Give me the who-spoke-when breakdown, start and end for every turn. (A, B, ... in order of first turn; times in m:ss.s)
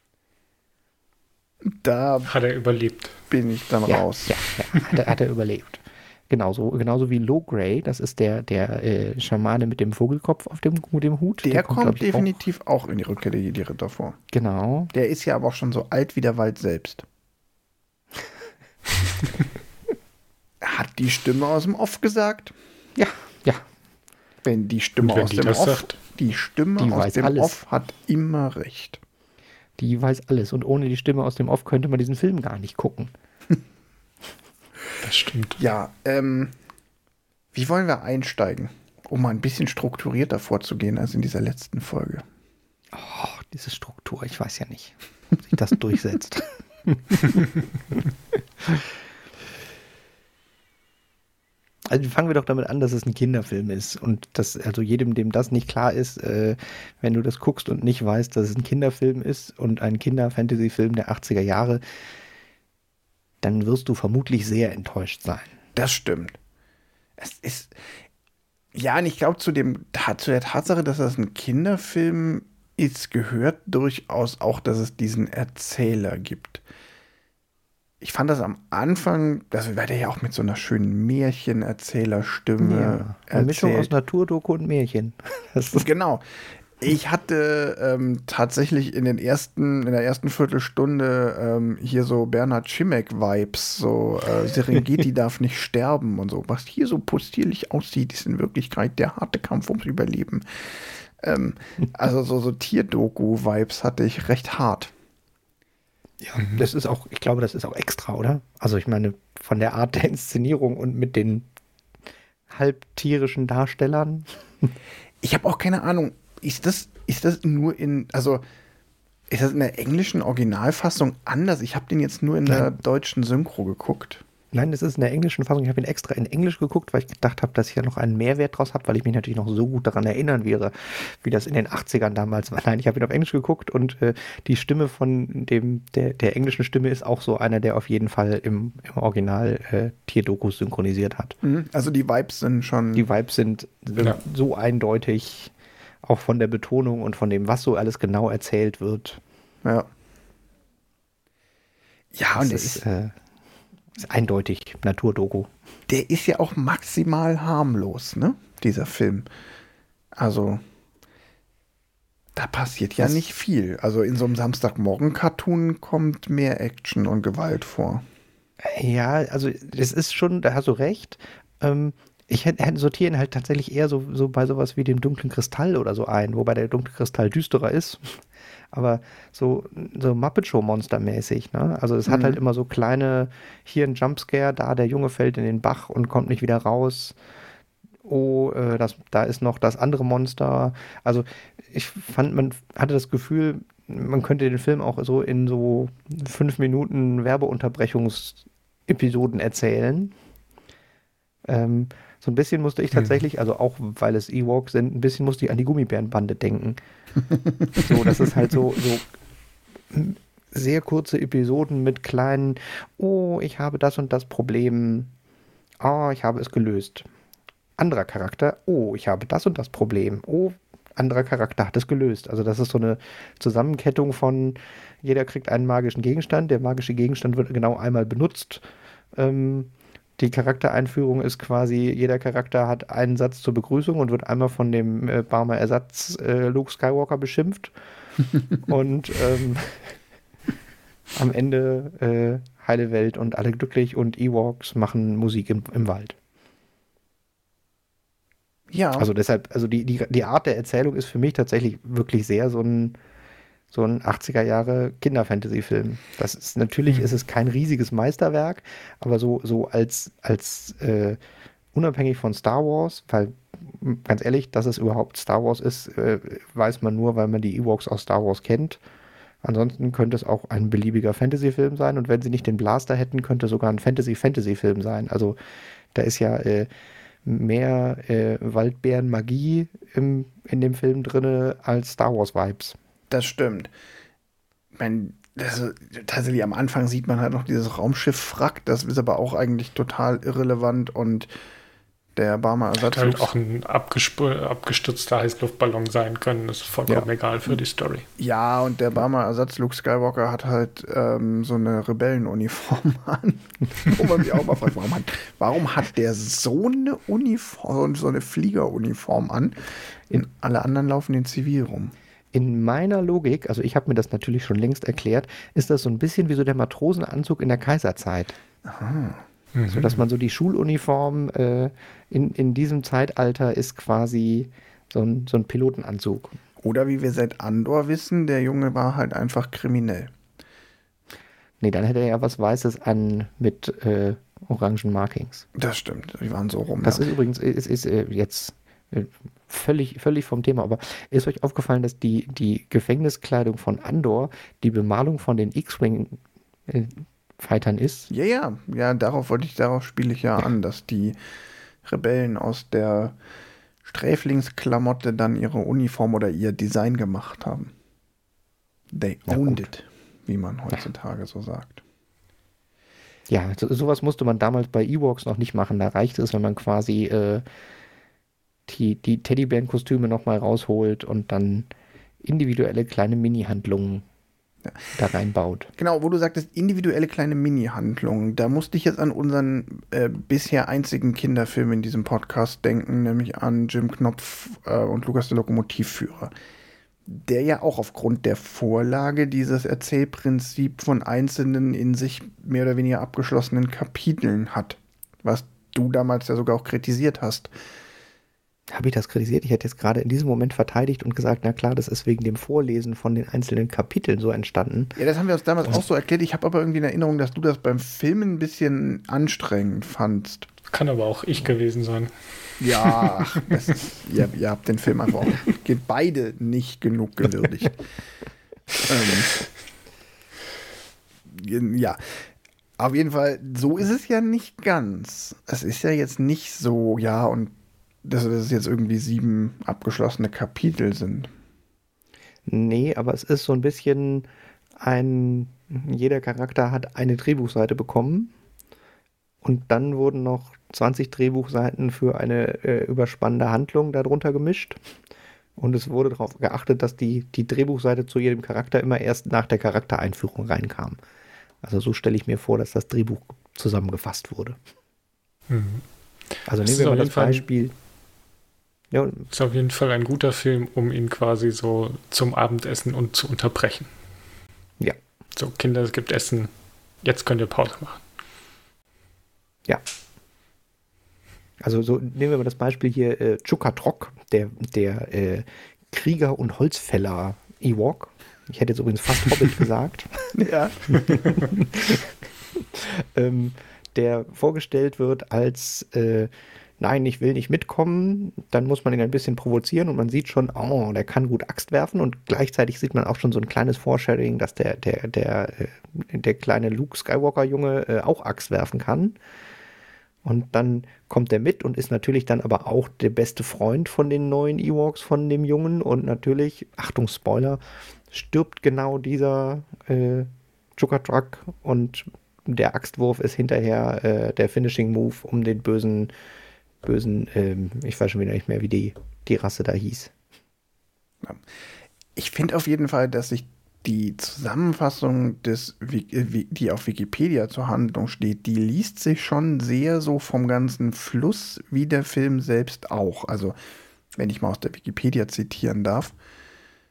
0:01.6-0:02.3 A
0:02.3-0:03.2 B
0:03.3-0:04.3 A
0:03.9-0:12.3 C
0:11.4-0:14.2 A
0:14.3-0:14.9 C
0:14.9-0:17.0 A
0:20.6-0:22.5 A
0:23.0-0:23.6 C
0:24.4-0:29.0 A
0:25.0-0:26.0 B
0:26.8-0:27.6 C
0:29.8-0:33.1 C
0:35.0-0:35.6 B
0:35.6-0:36.5 A
0:37.5-0:42.2 A
0:42.9-0:47.4 C
0:51.9-1:01.8 C
1:03.4-1:05.5 C
1:05.8-1:06.4 A
1:07.2-1:07.7 A
1:08.7-1:16.6 A
1:18.0-1:23.9 A
1:22.6-1:25.9 C
1:25.8-1:26.2 A
1:26.8-1:44.9 A
1:46.2-1:51.5 C
1:52.5-1:54.7 C
1:55.2-1:58.4 A
1:59.3-2:04.2 A
2:04.5-2:21.4 C
2:21.4-2:23.1 A
2:22.9-2:25.5 C
2:26.0-2:29.2 C
2:32.1-2:32.8 A
2:32.3-2:33.2 C
2:34.0-2:35.5 C
2:35.9-2:39.3 A
2:40.2-2:40.6 A
2:42.4-2:48.0 A
2:48.6-2:58.2 C
2:58.7-3:07.2 C
3:02.1-3:02.4 A
3:08.0-3:20.1 C
3:21.5-3:26.8 C
3:27.6-3:28.3 A
3:27.8-3:29.1 C
3:29.9-3:35.1 C
3:35.8-3:37.1 C
3:37.8-3:48.6 C
3:49.2-3:57.7 C
3:58.6-4:00.0 C
4:01.2-4:06.2 C
4:08.7-4:09.1 A
4:09.0-4:13.0 C
4:13.7-4:21.2 C
4:16.9-4:17.2 B
4:21.8-4:28.8 C
4:29.4-4:35.4 C
4:36.0-4:36.7 C
4:37.2-4:42.8 C
4:43.1-4:43.7 A
4:44.8-4:51.3 A
4:52.2-4:53.3 A
4:52.9-4:58.1 B
4:58.2-5:12.0 A
5:12.3-5:18.4 C
5:18.6-5:19.2 A
5:19.6-5:20.0 B
5:19.7-5:26.4 C
5:26.6-5:30.1 A
5:31.6-5:35.4 C
5:35.6-5:37.0 A
5:36.8-5:48.1 C
5:48.1-5:51.2 A
5:51.8-5:53.2 A
5:53.8-5:57.7 A
5:58.9-6:01.8 A
5:59.3-5:59.7 C
6:03.3-6:07.4 C
6:08.7-6:11.7 C
6:12.2-6:14.0 C
6:15.0-6:15.7 C
6:15.8-6:26.3 A
6:27.1-6:37.5 A
6:38.7-6:45.0 C
6:45.0-6:50.5 A
6:50.7-6:52.1 B
6:52.6-6:57.8 A
6:52.7-6:53.3 B
6:58.9-6:59.3 A
7:01.3-7:02.2 A
7:02.8-7:07.5 A
7:08.0-7:11.3 A
7:12.5-7:14.3 C
7:14.8-7:18.3 C
7:19.4-7:24.8 C
7:25.6-7:31.0 C
7:31.6-7:34.6 C
7:35.5-7:35.8 B
7:36.5-7:37.7 C
7:36.6-7:37.4 B
7:38.9-7:39.3 C
7:39.3-7:43.9 B
7:45.4-7:46.5 B
7:47.0-7:48.0 B
7:51.6-8:00.1 C
8:00.3-8:00.8 A
8:00.9-8:19.2 C
8:20.2-8:27.6 C
8:28.1-8:36.1 C
8:36.8-8:40.1 C
8:42.2-8:53.6 A
8:54.2-8:56.2 A